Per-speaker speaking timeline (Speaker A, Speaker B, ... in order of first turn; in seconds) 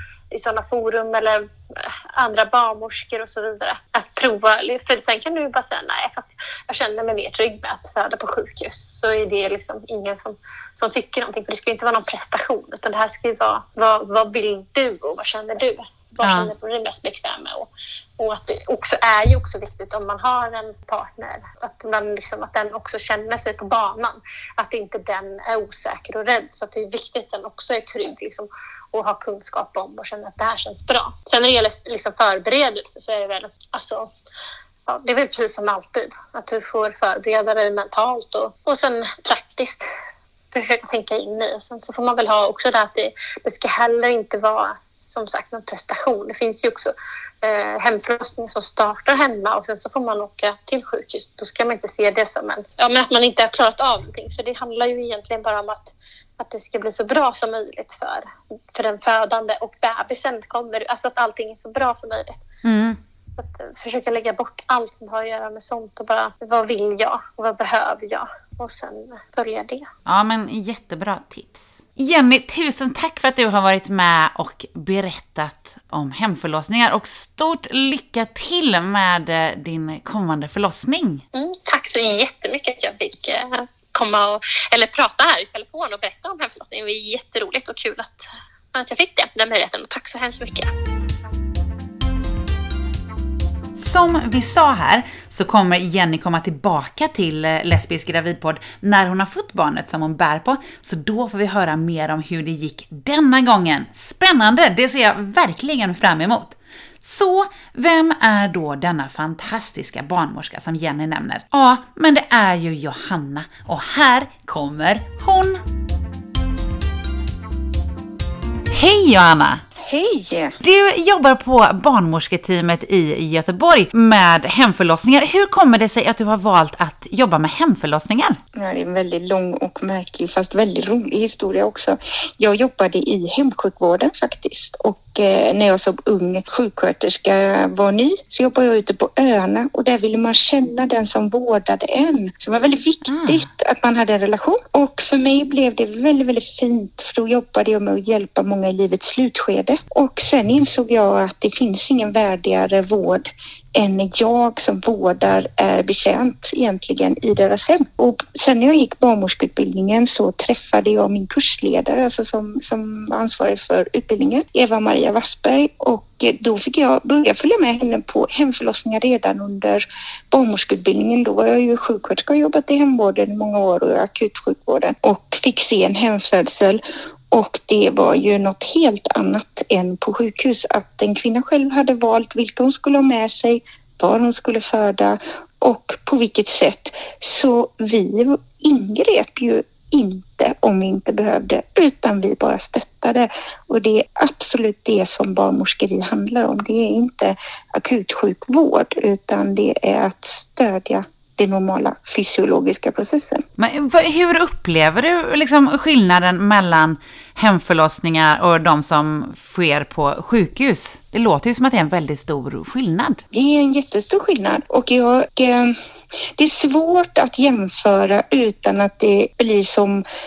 Speaker A: 0.3-34.1, 34.9-39.9, 40.5-62.4, 63.3-69.9, 81.3-90.7
Speaker B: 16.2-16.5, 62.6-63.0, 70.0-81.2, 93.8-115.6, 118.7-119.6, 120.6-128.4, 143.1-143.5, 203.6-213.2
Speaker C: 119.8-120.6, 128.5-203.4, 213.3-215.7, 216.4-220.0